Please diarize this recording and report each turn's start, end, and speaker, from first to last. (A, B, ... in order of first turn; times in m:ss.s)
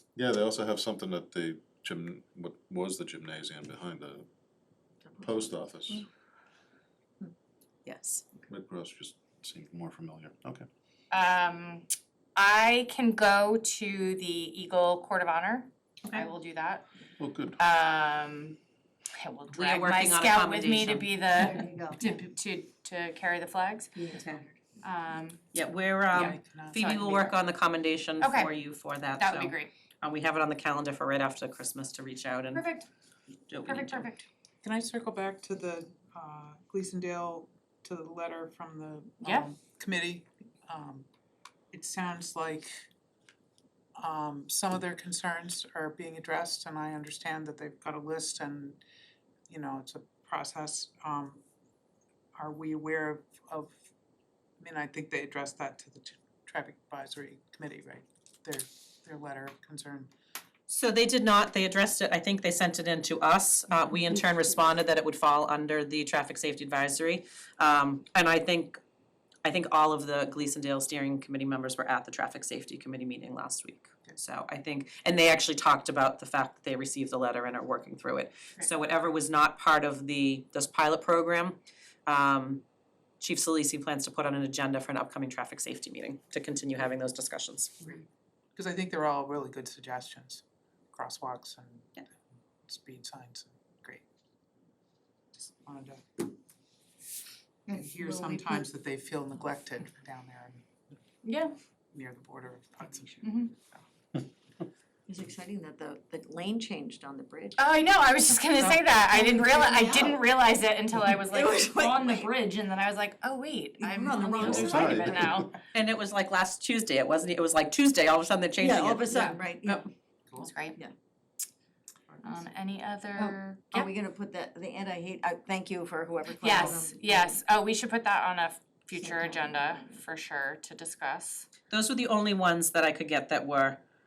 0:00.2-0:04.2 A
0:05.0-0:05.5 B
0:05.2-0:06.0 A
0:07.8-0:08.2 C
0:08.5-0:10.6 A
0:11.1-0:16.8 D
0:17.2-0:17.6 A
0:17.6-0:18.6 D
0:19.2-0:24.0 D
0:19.5-0:21.5 C
0:21.3-0:22.0 B
0:24.0-0:24.5 B
0:24.1-0:24.4 C
0:24.8-0:25.4 D
0:25.5-0:32.7 C
0:26.1-0:26.8 E
0:26.8-0:27.3 D
0:28.2-0:28.5 D
0:29.2-0:29.7 D
0:32.5-0:32.9 D
0:33.5-0:34.1 C
0:33.7-0:34.2 D
0:34.6-0:41.1 E
0:39.2-0:39.5 D
0:41.7-0:42.8 E
0:44.0-0:48.8 E
0:49.5-0:51.4 E
0:52.3-0:53.8 E
0:54.6-1:00.1 E
1:00.7-1:08.8 C
1:09.4-1:22.6 C
1:23.2-1:27.9 C
1:28.5-1:32.0 E
1:32.7-1:34.0 E
1:35.3-1:36.3 E
1:37.7-1:41.0 E
1:37.8-1:38.5 B
1:41.2-1:41.5 D
1:41.9-1:43.8 E
1:43.2-1:43.5 D
1:45.1-1:47.6 B
1:47.6-1:55.6 D
1:48.6-1:50.2 B
1:51.2-1:52.3 B
1:53.8-1:55.2 B
1:54.4-1:55.5 A
1:55.7-1:59.9 C
1:58.6-1:59.9 B
1:59.1-1:59.4 D
2:00.4-2:00.8 D
2:02.2-2:03.9 D
2:03.2-2:07.4 B
2:06.4-2:11.5 D
2:09.0-2:09.9 B
2:11.7-2:13.8 C